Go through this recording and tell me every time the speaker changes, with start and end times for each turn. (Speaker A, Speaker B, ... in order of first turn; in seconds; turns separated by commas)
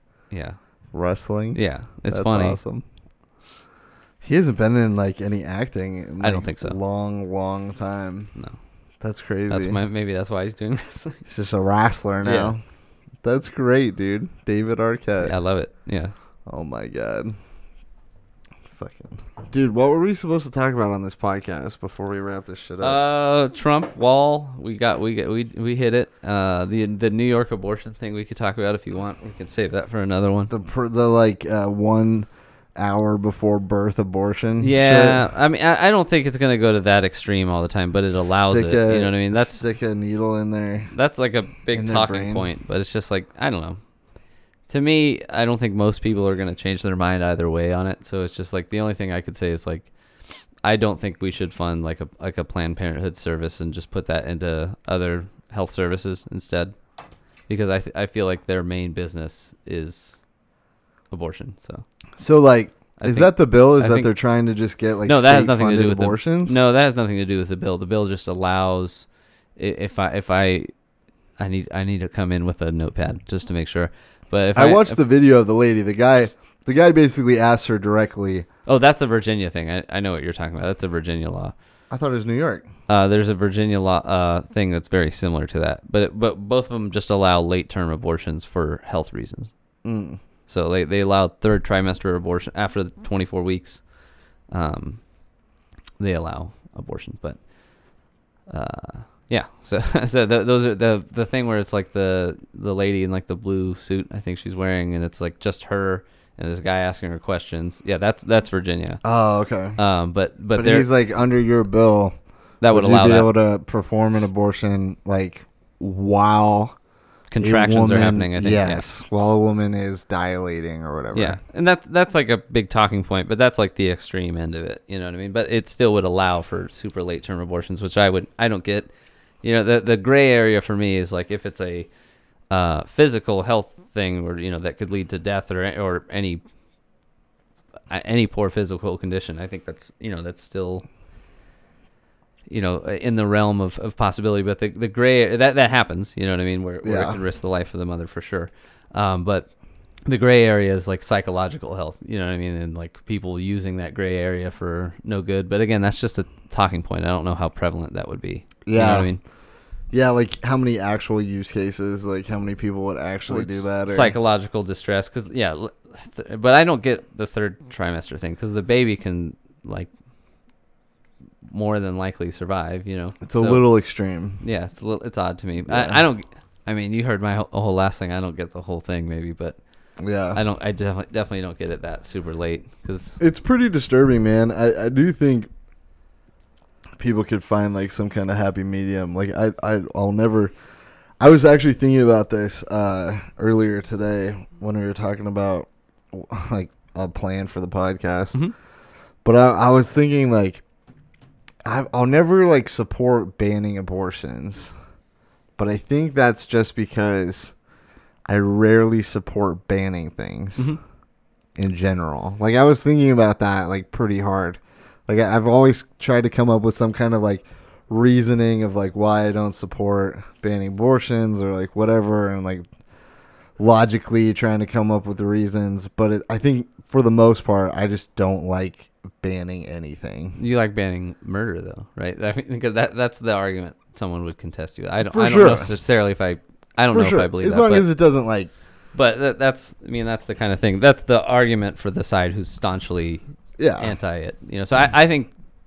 Speaker A: 0.3-0.6, Speaker B: 0.9-2.9, Speaker A: 1.5-2.6, Speaker B: 4.2-8.3, Speaker A: 6.2-6.8, Speaker B: 9.0-9.8, Speaker A: 9.5-11.2, Speaker B: 11.3-12.6, Speaker A: 12.2-12.5, Speaker B: 13.2-15.3, Speaker A: 15.2-16.1, Speaker B: 16.5-17.4, Speaker B: 18.7-23.0, Speaker A: 22.8-30.5, Speaker B: 30.5-35.2, Speaker A: 34.6-39.6, Speaker B: 38.2-40.9, Speaker A: 40.9-43.8, Speaker B: 41.7-42.5, Speaker A: 44.7-49.9, Speaker A: 50.6-56.8, Speaker A: 57.5-60.2, Speaker A: 61.1-61.9, Speaker B: 62.2-66.6, Speaker A: 63.0-64.1, Speaker A: 65.0-70.7, Speaker A: 71.4-75.0, Speaker B: 74.5-78.5, Speaker A: 78.7-81.5, Speaker B: 81.9-82.7, Speaker A: 82.9-89.5, Speaker B: 89.8-90.2, Speaker A: 90.5-93.8, Speaker A: 94.5-95.0, Speaker A: 96.0-97.4, Speaker A: 98.5-109.0, Speaker B: 109.0-109.8, Speaker A: 109.8-110.9, Speaker B: 110.5-112.2, Speaker A: 112.6-113.3, Speaker B: 112.7-116.8, Speaker A: 117.3-118.9, Speaker B: 117.4-121.4, Speaker A: 121.1-128.9, Speaker A: 129.4-131.9, Speaker A: 132.5-136.4, Speaker A: 137.9-140.8, Speaker A: 142.5-149.5, Speaker B: 146.8-147.2, Speaker A: 150.1-159.2, Speaker B: 158.7-159.1, Speaker B: 159.9-164.2, Speaker A: 163.3-169.9, Speaker A: 171.5-173.6, Speaker B: 173.2-174.4, Speaker A: 174.4-179.6, Speaker B: 175.7-176.0, Speaker B: 180.0-180.4, Speaker A: 180.3-183.2, Speaker B: 183.2-185.5, Speaker B: 187.0-190.5, Speaker B: 191.2-198.4, Speaker B: 199.2-200.6, Speaker B: 201.7-204.7, Speaker B: 205.6-207.5, Speaker B: 208.2-210.7, Speaker B: 211.6-222.7, Speaker B: 223.6-230.4, Speaker A: 230.4-237.9, Speaker B: 235.1-235.7, Speaker B: 236.9-238.5, Speaker A: 238.9-243.2, Speaker B: 243.6-243.9, Speaker A: 243.8-245.3